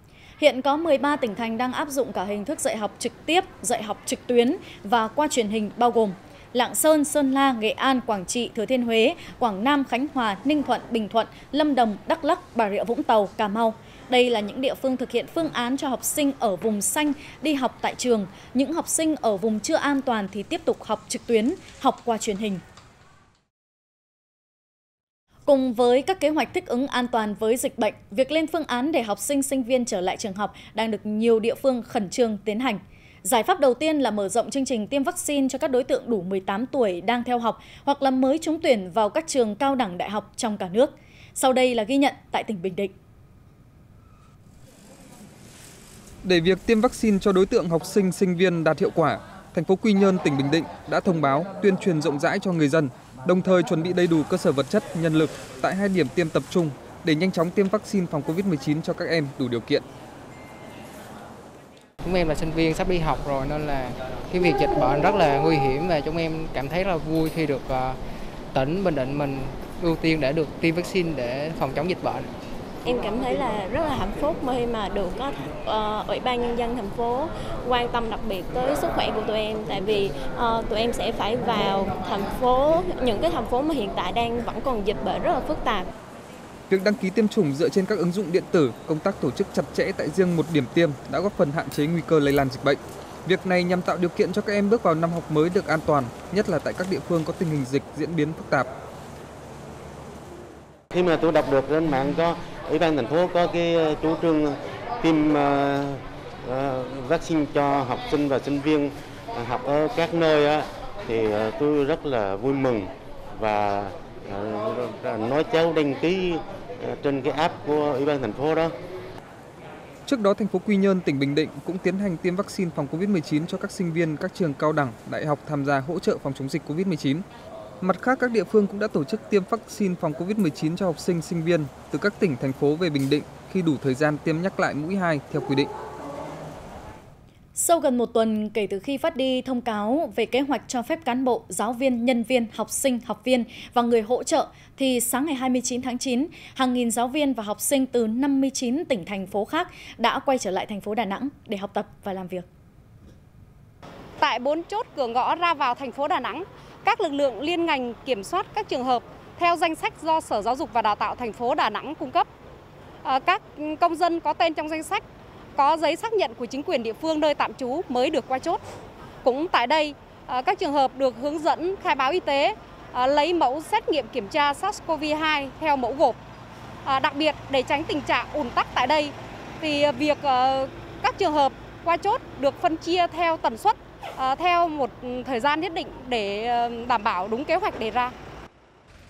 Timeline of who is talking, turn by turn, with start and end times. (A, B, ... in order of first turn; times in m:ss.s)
0:00.4-0:22.6 A
0:25.5-0:42.9 A
0:46.2-0:59.8 B
1:02.0-1:08.0 C
1:08.5-1:12.3 C
1:12.8-1:25.9 D
1:26.7-1:38.7 B
1:40.9-1:58.7 E
2:00.0-2:07.2 B
2:07.8-2:15.7 B
2:17.6-2:32.5 A
2:34.2-2:42.2 F
2:43.0-2:45.0 F
2:45.6-2:48.6 F
2:49.2-2:56.2 F
2:56.8-3:08.1 F